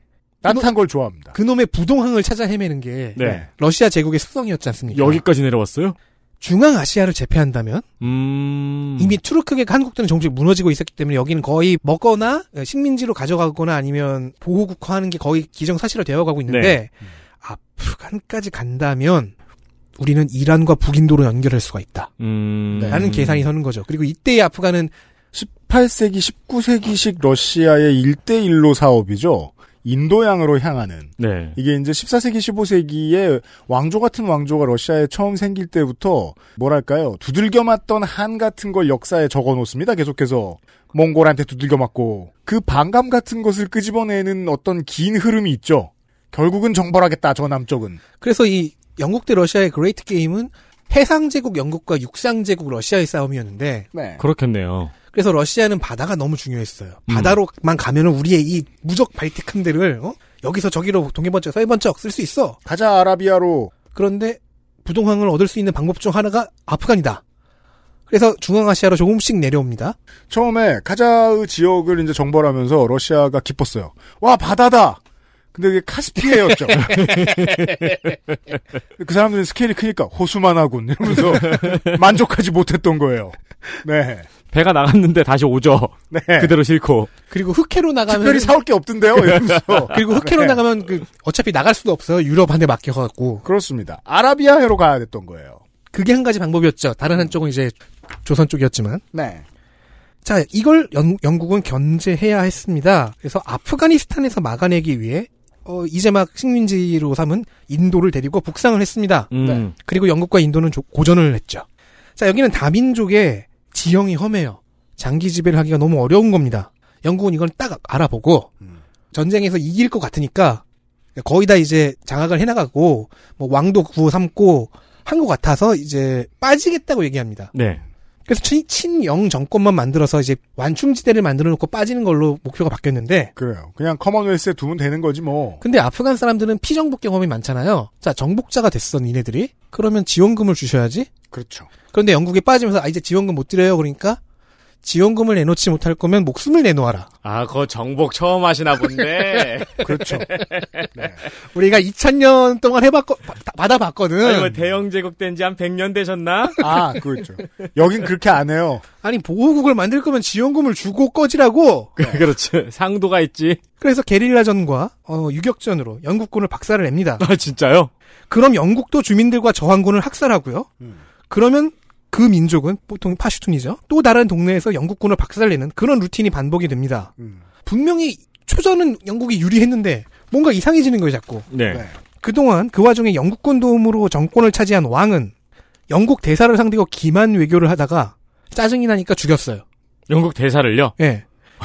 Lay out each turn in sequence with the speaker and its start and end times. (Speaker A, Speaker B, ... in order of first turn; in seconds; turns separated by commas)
Speaker A: 0.4-1.4, Speaker B: 1.3-5.2, Speaker C: 3.1-3.4, Speaker A: 3.2-3.5, Speaker C: 4.9-6.0, Speaker B: 6.4-7.9, Speaker C: 8.0-9.2, Speaker B: 9.0-19.3, Speaker C: 16.5-16.8, Speaker B: 20.0-22.1, Speaker C: 22.2-23.5, Speaker A: 22.7-23.1, Speaker B: 22.9-24.9, Speaker A: 25.3-48.0, Speaker C: 31.2-31.6, Speaker B: 48.2-53.9, Speaker A: 53.9-54.2, Speaker C: 54.2-54.9, Speaker B: 55.1-62.6, Speaker C: 57.1-57.4, Speaker A: 62.6-63.7, Speaker B: 63.9-67.2, Speaker B: 68.1-70.0, Speaker A: 70.3-75.0, Speaker A: 75.5-77.6, Speaker C: 76.7-78.1, Speaker A: 79.0-84.3, Speaker C: 81.3-81.9, Speaker C: 84.5-87.1, Speaker A: 86.1-86.5, Speaker B: 87.3-88.5, Speaker A: 88.1-90.6, Speaker C: 89.3-89.8, Speaker B: 89.9-93.4, Speaker A: 93.4-95.6, Speaker B: 95.9-99.0, Speaker A: 99.1-99.4, Speaker B: 100.2-111.6, Speaker C: 109.3-109.7, Speaker A: 109.4-109.7, Speaker B: 112.2-118.5, Speaker B: 119.1-120.6, Speaker B: 121.2-127.5, Speaker C: 127.5-127.8, Speaker B: 128.3-133.3, Speaker A: 133.3-135.6, Speaker B: 135.6-141.1, Speaker A: 141.3-141.7, Speaker B: 141.9-144.2, Speaker B: 144.8-147.1, Speaker C: 147.2-150.9, Speaker A: 149.8-150.3, Speaker A: 150.9-151.2, Speaker B: 151.5-154.5, Speaker C: 154.2-156.8, Speaker A: 156.6-158.8, Speaker B: 159.0-161.9, Speaker C: 162.0-163.6, Speaker A: 162.0-162.2, Speaker B: 163.8-167.2, Speaker C: 167.2-167.9, Speaker B: 168.3-170.7, Speaker B: 171.3-177.1, Speaker A: 177.2-177.5, Speaker B: 177.6-181.5, Speaker C: 181.5-181.8, Speaker A: 181.7-182.0, Speaker B: 182.2-185.3, Speaker B: 185.9-189.6, Speaker C: 190.1-190.9, Speaker B: 191.0-191.2